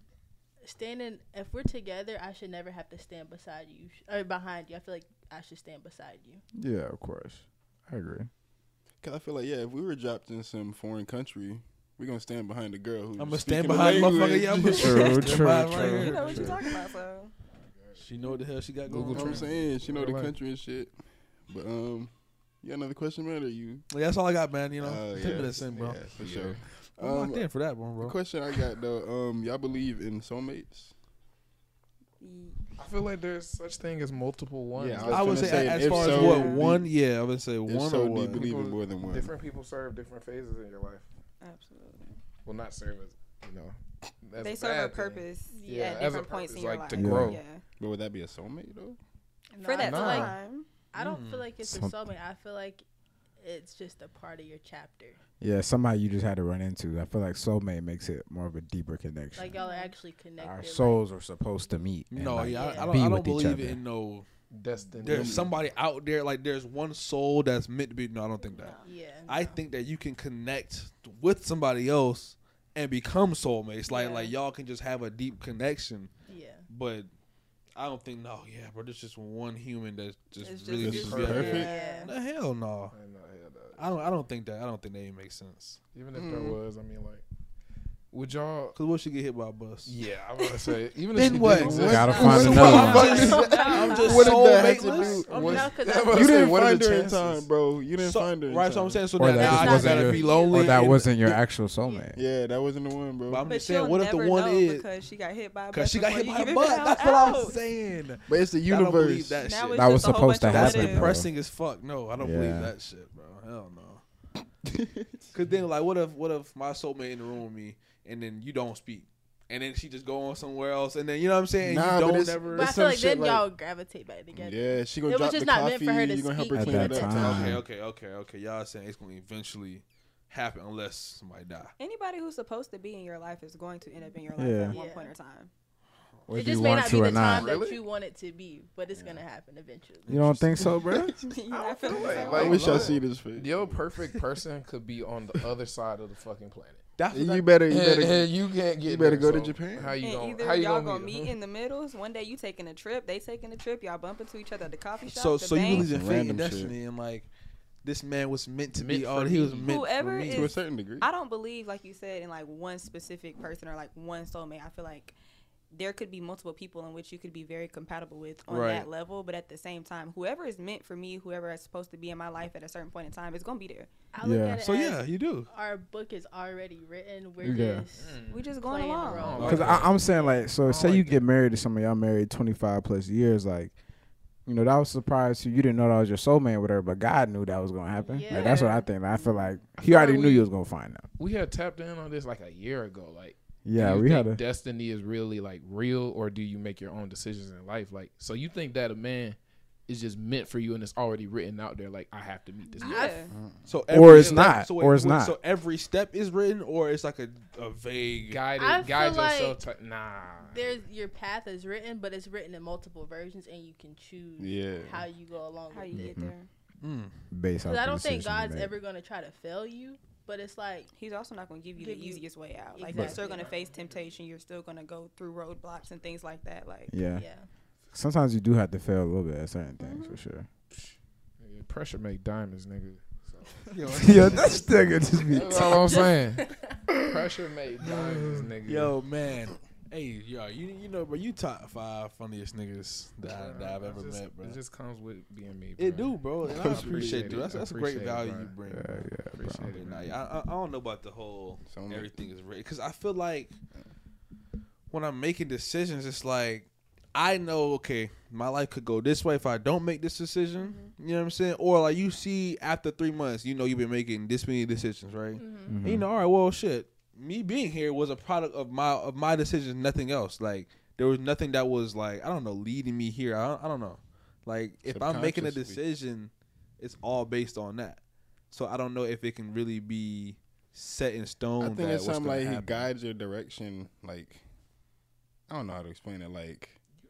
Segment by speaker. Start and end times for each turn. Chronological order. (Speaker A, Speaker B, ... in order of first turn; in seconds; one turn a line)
Speaker A: 0.6-6.4
Speaker B: 6.6-8.3
Speaker C: 9.0-15.1
Speaker D: 13.2-16.6
Speaker B: 14.7-16.6
Speaker E: 14.8-17.3
Speaker D: 18.0-19.5
Speaker F: 18.9-20.4
Speaker C: 19.1-20.9
Speaker C: 21.5-23.8
Speaker D: 23.9-26.0
Speaker C: 24.8-30.9
Speaker F: 26.1-26.5
Speaker D: 27.0-28.2
Speaker E: 32.2-32.6
Speaker F: 32.8-36.0
Speaker C: 34.8-37.0
Speaker D: 35.1-38.4
Speaker E: 35.8-36.6
Speaker C: 37.7-39.4
Speaker F: 38.3-41.1
Speaker E: 41.4-42.2
Speaker F: 42.5-47.4
Speaker E: 44.4-47.6
Speaker A: 45.5-46.1
Speaker B: 46.9-47.4
Speaker C: 47.8-49.0
Speaker A: 49.5-50.3
Speaker E: 49.6-50.7
Speaker F: 49.8-50.3
Speaker A: 50.9-52.8
Speaker D: 51.0-51.5
Speaker B: 51.6-52.0
Speaker A: 53.4-55.2
Speaker B: 55.4-59.5
Speaker A: 59.4-61.0
Speaker E: 59.5-60.0
Speaker B: 60.4-63.8
Speaker D: 62.1-64.3
Speaker A: 62.5-63.0
Speaker F: 64.5-65.5
Speaker D: 65.0-68.8
Speaker C: 65.0-65.5
Speaker E: 68.4-68.9
Speaker A: 68.8-69.5
Speaker D: 69.3-76.1
Speaker E: 73.9-74.3
Speaker A: 76.3-76.7
Speaker D: 76.7-77.1
Speaker D: 77.8-82.9
Speaker E: 80.4-82.2
Speaker A: 80.8-82.2
Speaker C: 80.8-81.7
Speaker F: 81.0-81.6
Speaker F: 82.9-84.1
Speaker D: 83.8-85.8
Speaker F: 85.9-87.2
Speaker C: 86.1-86.6
Speaker F: 88.1-88.8
Speaker D: 88.8-90.0
Speaker F: 89.8-92.8
Speaker D: 91.1-95.8
Speaker C: 91.4-99.2
Speaker B: 91.8-93.2
Speaker E: 91.9-94.3
Speaker A: 92.6-96.5
Speaker F: 94.0-97.5
Speaker D: 98.0-101.1
Speaker B: 99.2-102.2
Speaker A: 99.2-101.0
Speaker E: 99.9-101.0
Speaker C: 102.2-103.5
Speaker D: 103.3-104.9
Speaker E: 103.5-107.6
Speaker D: 105.7-114.0
Speaker C: 108.3-109.5
Speaker E: 109.4-111.2
Speaker B: 109.8-111.3
Speaker B: 112.2-112.7
Speaker C: 114.7-115.3
Speaker D: 115.3-122.7
Speaker C: 121.6-123.5
Speaker A: 122.5-127.4
Speaker C: 124.3-127.6
Speaker B: 126.5-127.6
Speaker D: 127.1-131.7
Speaker E: 131.8-135.5
Speaker B: 134.4-134.8
Speaker A: 134.7-135.1
Speaker B: 136.3-137.5
Speaker A: 136.3-140.2
Speaker F: 137.3-137.8
Speaker D: 140.1-140.7
Speaker B: 140.1-141.2
Speaker E: 141.2-142.9
Speaker F: 141.5-146.8
Speaker A: 142.1-142.5
Speaker C: 142.3-143.8
Speaker D: 147.0-147.5
Speaker C: 147.1-149.9
Speaker F: 147.7-151.3
Speaker E: 150.0-155.9
Speaker D: 155.1-157.3
Speaker C: 155.7-156.8
Speaker D: 157.8-160.5
Speaker F: 158.7-159.7
Speaker E: 159.6-165.2
Speaker C: 160.2-161.1
Speaker E: 165.7-173.9
Speaker D: 168.5-168.9
Speaker A: 174.1-180.0
Speaker B: 174.2-174.6
Speaker D: 174.6-175.5
Speaker B: 177.4-177.9
Speaker F: 177.4-178.6
Speaker E: 178.3-179.6
Speaker F: 179.1-181.3
Speaker D: 179.4-179.8
Speaker B: 179.4-183.8
Speaker B: 184.5-191.1
Speaker A: 188.1-188.7
Speaker E: 188.3-188.9
Speaker F: 189.8-190.5
Speaker F: 191.2-203.2
Speaker B: 193.7-194.4
Speaker A: 202.8-203.3
Speaker E: 202.8-203.3
Speaker D: 203.7-208.4
Speaker B: 203.9-205.4
Speaker F: 204.0-204.5
Speaker F: 208.3-210.8
Speaker A: 208.5-209.6
Speaker A: 210.5-216.2
Speaker C: 214.4-215.1
Speaker E: 215.7-216.5
Speaker B: 215.9-216.3
Speaker D: 216.8-217.2
Speaker B: 217.3-218.8
Speaker A: 217.6-220.9
Speaker E: 220.9-226.9
Speaker A: 221.8-223.5
Speaker F: 223.0-223.6
Speaker B: 226.9-227.3
Speaker A: 227.1-227.4
Speaker B: 227.9-230.5
Speaker E: 229.8-230.2
Speaker F: 231.4-233.7
Speaker D: 233.7-234.8
Speaker B: 233.9-235.8
Speaker F: 235.3-239.0
Speaker D: 237.8-244.6
Speaker F: 243.2-248.6
Speaker D: 245.8-249.1
Speaker C: 246.4-247.4
Speaker B: 248.7-249.7
Speaker F: 249.2-250.2
Speaker D: 249.6-253.6
Speaker C: 251.7-252.2
Speaker D: 254.9-282.9
Speaker E: 260.6-260.9
Speaker A: 265.4-265.8
Speaker B: 265.7-266.1
Speaker C: 274.9-275.8
Speaker C: 281.6-284.4
Speaker C: 285.5-286.8